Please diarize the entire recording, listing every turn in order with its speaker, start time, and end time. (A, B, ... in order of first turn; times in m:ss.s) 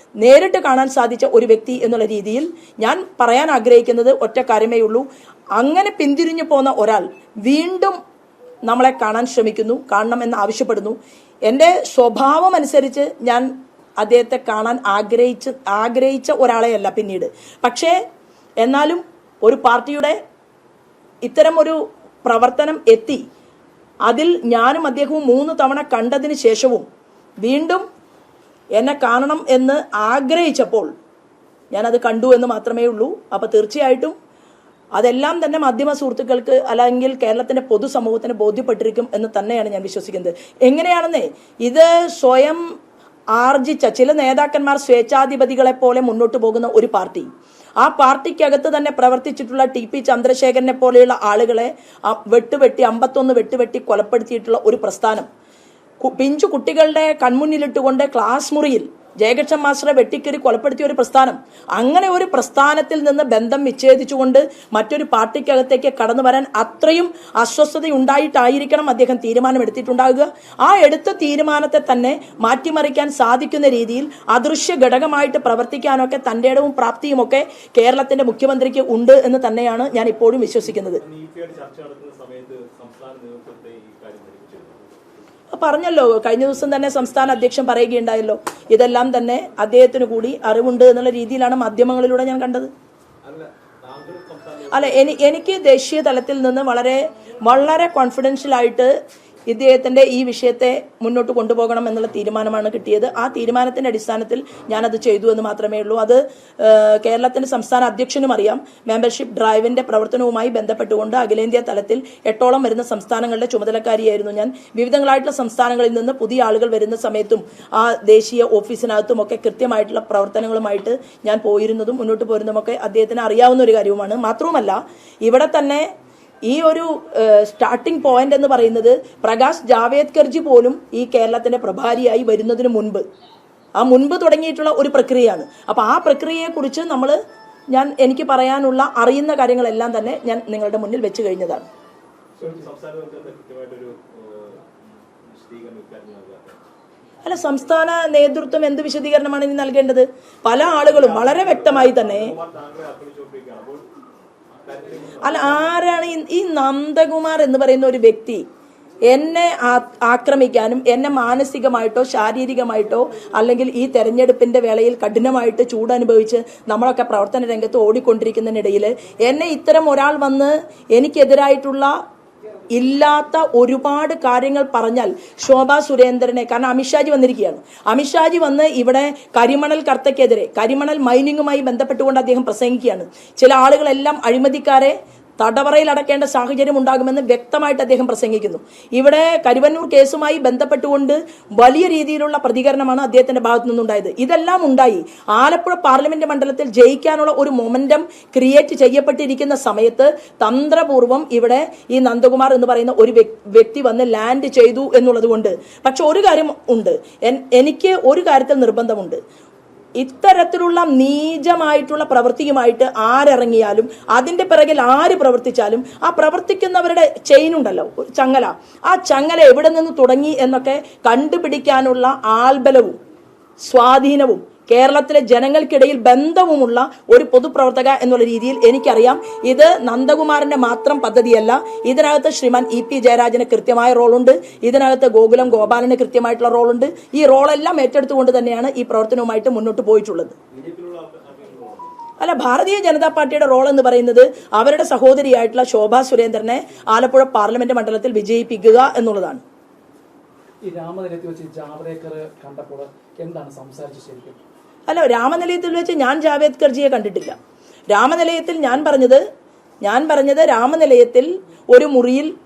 0:00.2-0:05.0 A
0:05.6-0:08.0 A
0:08.7-0:11.0 A
0:11.5-0:13.5 A
0:14.0-0:18.0 A
0:18.6-0:20.2 A
0:21.2-0:23.2 A
0:24.0-0:26.9 A
0:27.4-0:27.8 A
0:28.8-0:30.9 A
0:31.7-0:34.1 A
0:35.0-0:42.6 A
0:43.4-0:47.3 A
0:47.8-0:55.3 A
0:56.0-1:21.0 A
1:21.0-1:25.0 B
1:25.5-1:32.7 A
1:33.2-1:35.3 B
1:34.7-1:38.9 A
1:39.5-2:05.9 A
2:06.5-2:13.0 A
2:13.8-2:17.2 A
2:17.7-2:21.7 A
2:22.4-2:24.7 B
2:25.3-2:26.6 B
2:27.2-2:32.3 A
2:30.6-2:33.8 B
2:34.6-2:35.9 B
2:35.2-2:38.4 A
2:39.1-2:51.9 A
2:52.7-3:29.2 A
3:30.0-3:43.0 A
3:43.6-4:00.4 A
4:00.5-4:01.9 B
4:02.2-4:09.4 A
4:10.6-4:14.4 C
4:14.9-4:17.4 A
4:17.9-4:19.2 A
4:19.8-4:22.3 A